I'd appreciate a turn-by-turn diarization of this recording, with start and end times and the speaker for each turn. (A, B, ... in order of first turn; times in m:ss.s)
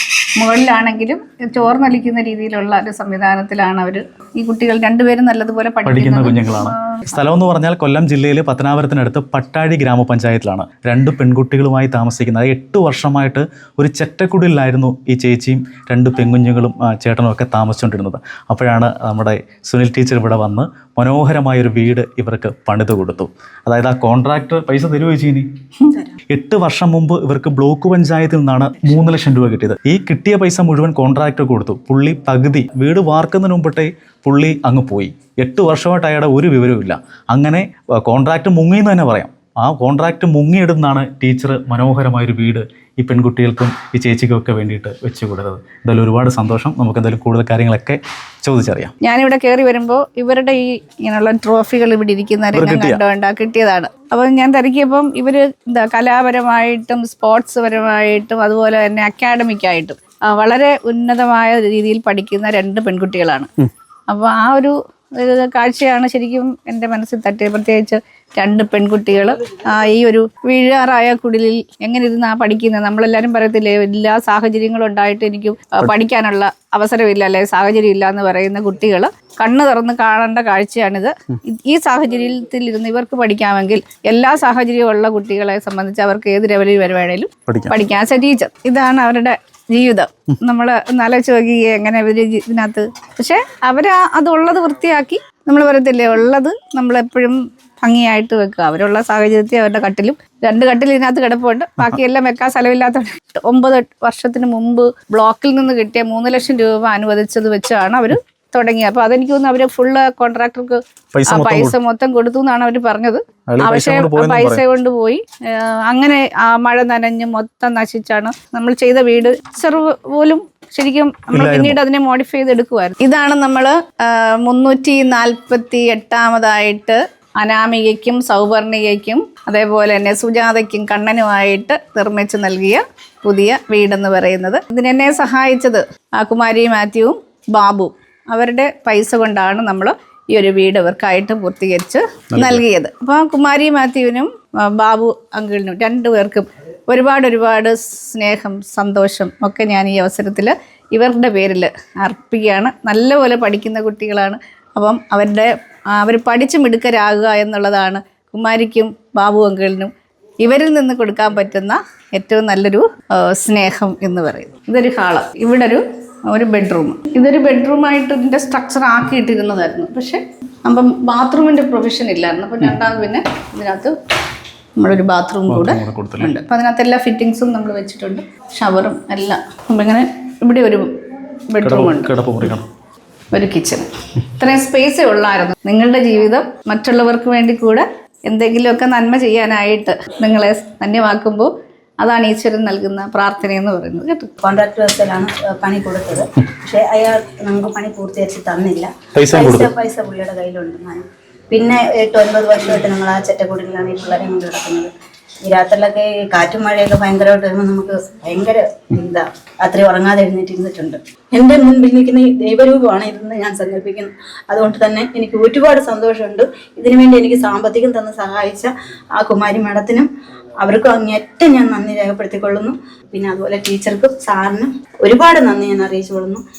0:00.4-0:07.0 A
0:05.8-0:25.5 B
0:26.3-0:48.9 B
0:49.0-1:03.5 A
0:52.5-0:53.0 B
1:04.1-2:39.9 A
1:27.5-1:27.8 B
1:51.1-1:51.8 B
1:53.5-1:54.6 B
2:01.3-2:01.8 B
2:22.3-2:22.6 B
2:40.4-2:53.9 A
2:54.8-3:00.9 A
2:55.5-2:56.4 B
3:01.5-3:02.1 A
3:01.6-3:02.6 B
3:03.3-3:14.3 A
3:14.4-3:24.9 C
3:19.1-3:19.7 B
3:25.5-3:40.1 C
3:40.6-3:46.4 C